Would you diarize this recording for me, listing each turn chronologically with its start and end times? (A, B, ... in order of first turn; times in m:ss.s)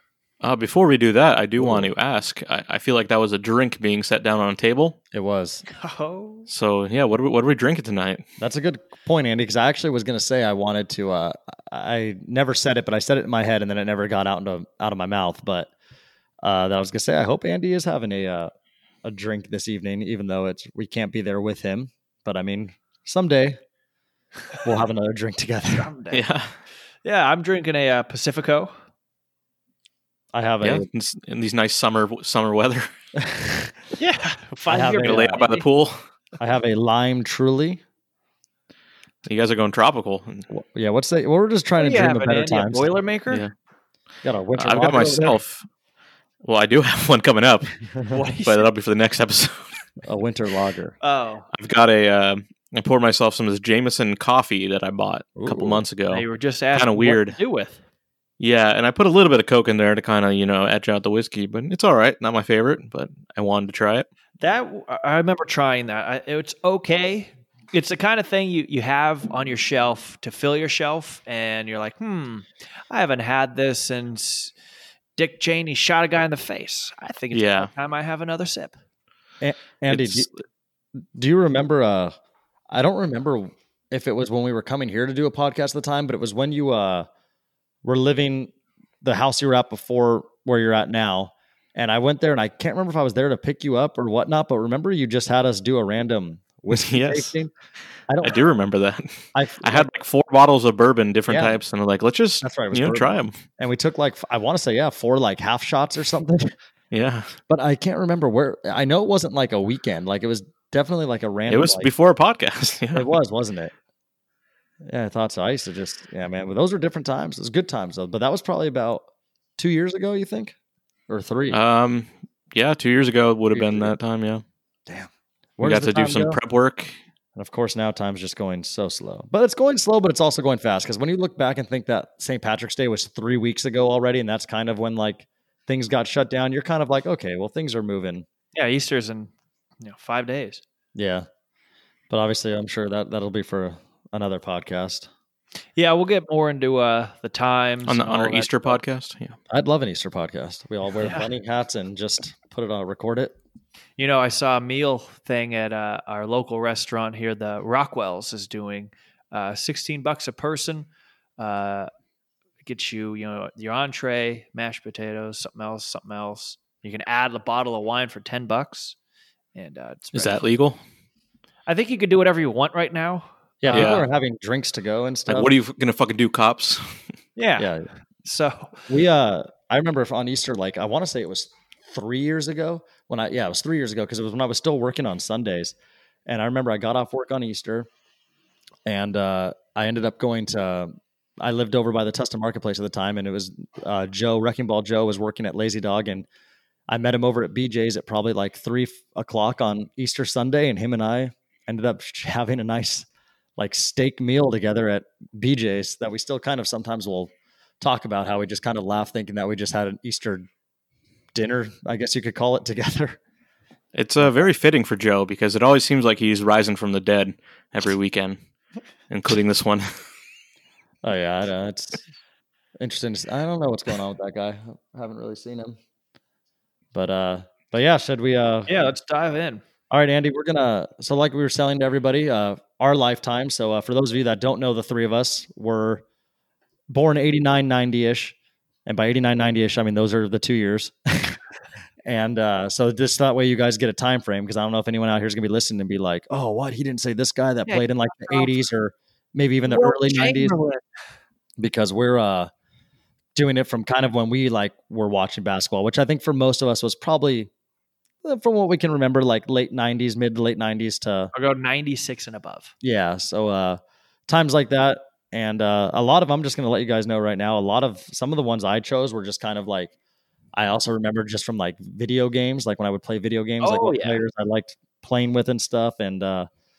0:00.4-0:05.0 A
0:01.6-0:01.9 B
0:05.1-0:05.6 B
0:05.7-0:06.5 C
0:06.5-0:08.2 A
0:08.4-0:15.7 B
0:16.4-0:18.5 B
0:19.0-0:23.6 B
0:24.6-0:25.9 B
0:25.7-0:26.2 C
0:26.1-0:26.5 A
0:27.0-0:28.7 C
0:30.3-0:30.9 B
0:30.6-0:32.9 A
0:33.2-0:33.7 B
0:34.0-0:35.6 C
0:34.7-0:35.4 B
0:35.0-0:36.0 A
0:36.4-0:37.8 B
0:39.2-0:40.4 A
0:40.5-0:42.9 B
0:41.8-0:43.4 C
0:44.2-0:45.4 B
0:44.6-0:45.6 A
0:46.4-0:47.8 A
0:48.1-0:48.7 C
0:48.4-0:49.8 A
0:50.0-0:51.0 B
0:51.0-0:51.5 C
0:51.5-0:57.4 A
0:55.4-0:55.8 B
0:56.1-0:57.8 C
0:58.4-1:04.1 A
1:04.4-1:14.5 C
1:15.2-1:18.8 C
1:17.3-1:17.7 A
1:19.4-1:20.3 B
1:19.9-1:20.4 A
1:21.1-1:22.1 B
1:22.7-1:27.1 B
1:27.8-1:37.5 B
1:36.7-1:37.3 A
1:38.1-1:38.4 B
1:38.2-1:43.4 A
1:39.4-1:39.9 B
1:41.3-1:41.6 B
1:42.4-1:46.5 B
1:46.9-1:47.4 A
1:47.5-1:51.9 B
1:51.5-1:53.1 A
1:52.9-1:53.7 B
1:54.8-1:59.1 B
1:59.6-2:00.6 B
2:01.1-2:01.6 B
2:01.5-2:04.4 A
2:03.5-2:03.9 B
2:04.9-2:06.4 B
2:05.6-2:07.0 A
2:07.4-2:18.2 B
2:18.6-2:20.6 C
2:21.0-2:21.3 B
2:22.1-2:25.1 B
2:25.8-2:28.8 C
2:27.9-2:29.4 A
2:29.5-2:33.4 B
2:31.0-2:31.3 C
2:34.0-2:41.9 C
2:42.6-2:49.0 C
2:49.6-2:50.4 C
2:50.1-2:50.8 A
2:51.7-2:54.0 C
2:53.6-2:55.5 B
2:53.7-2:54.1 A
2:55.3-2:57.0 A
2:57.4-2:57.7 C
2:57.6-2:57.9 B
2:58.2-2:58.8 C
2:58.9-3:05.8 B
3:06.2-3:07.9 B
3:08.9-3:16.2 B
3:16.9-3:30.5 B
3:31.3-3:33.2 B
3:33.9-3:38.4 A
3:34.2-3:34.5 B
3:39.1-3:39.9 A
3:41.0-3:42.0 B
3:42.8-3:45.8 B
3:46.9-3:48.9 B
3:48.7-3:49.6 C
3:49.9-3:56.0 B
3:56.9-3:58.4 B
3:58.9-4:01.4 B
4:02.0-4:10.6 B
4:07.6-4:08.6 C
4:09.6-4:10.8 C
4:11.6-4:12.5 B
4:13.4-4:17.5 B
4:18.2-4:21.3 B
4:21.3-4:22.7 C
4:22.8-4:29.9 B
4:30.6-4:36.5 B
4:33.6-4:34.2 C